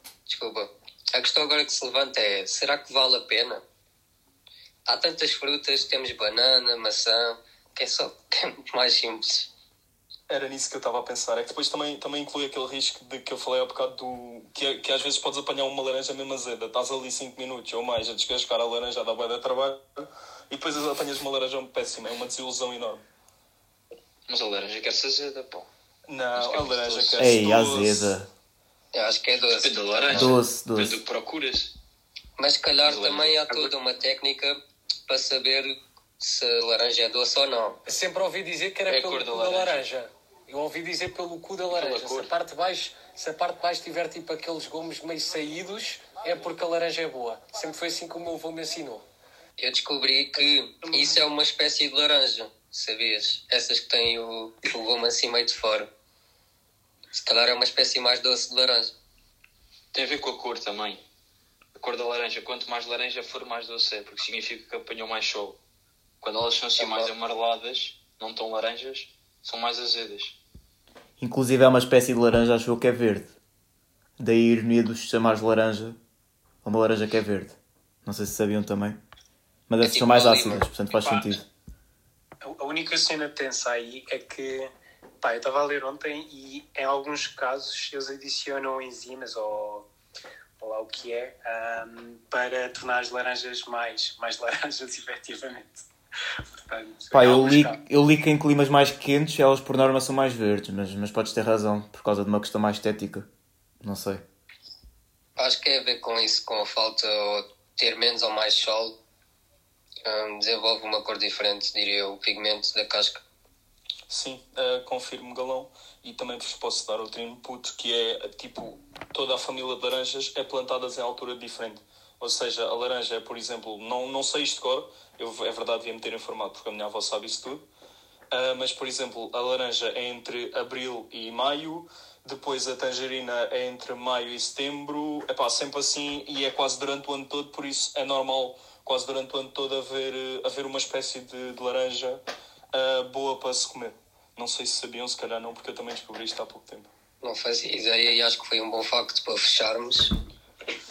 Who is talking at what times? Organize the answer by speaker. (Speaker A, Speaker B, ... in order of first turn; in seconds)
Speaker A: 0.3-3.6, 4.9-9.5, 28.9-30.4, 32.4-37.8, 49.6-55.9, 57.1-59.0, 66.8-67.1, 79.9-80.7, 105.4-109.0, 110.0-113.2, 147.2-150.1
Speaker B: 10.3-23.0, 26.1-28.2, 114.1-127.6, 128.3-142.2, 142.7-146.9
Speaker C: 24.3-25.7, 26.4-27.2, 29.5-31.8, 32.8-33.7, 38.9-39.8, 41.7-42.3, 59.9-61.0, 61.8-65.6, 66.2-70.4
Speaker D: 27.2-28.3, 30.1-31.0, 71.2-73.3, 74.2-76.0, 76.6-79.0, 79.7-81.5, 97.1-103.3, 103.8-104.2
Speaker E: 37.9-49.1, 50.9-51.2
Speaker F: 82.4-84.7, 85.2-89.9, 90.6-95.9, 96.6-97.8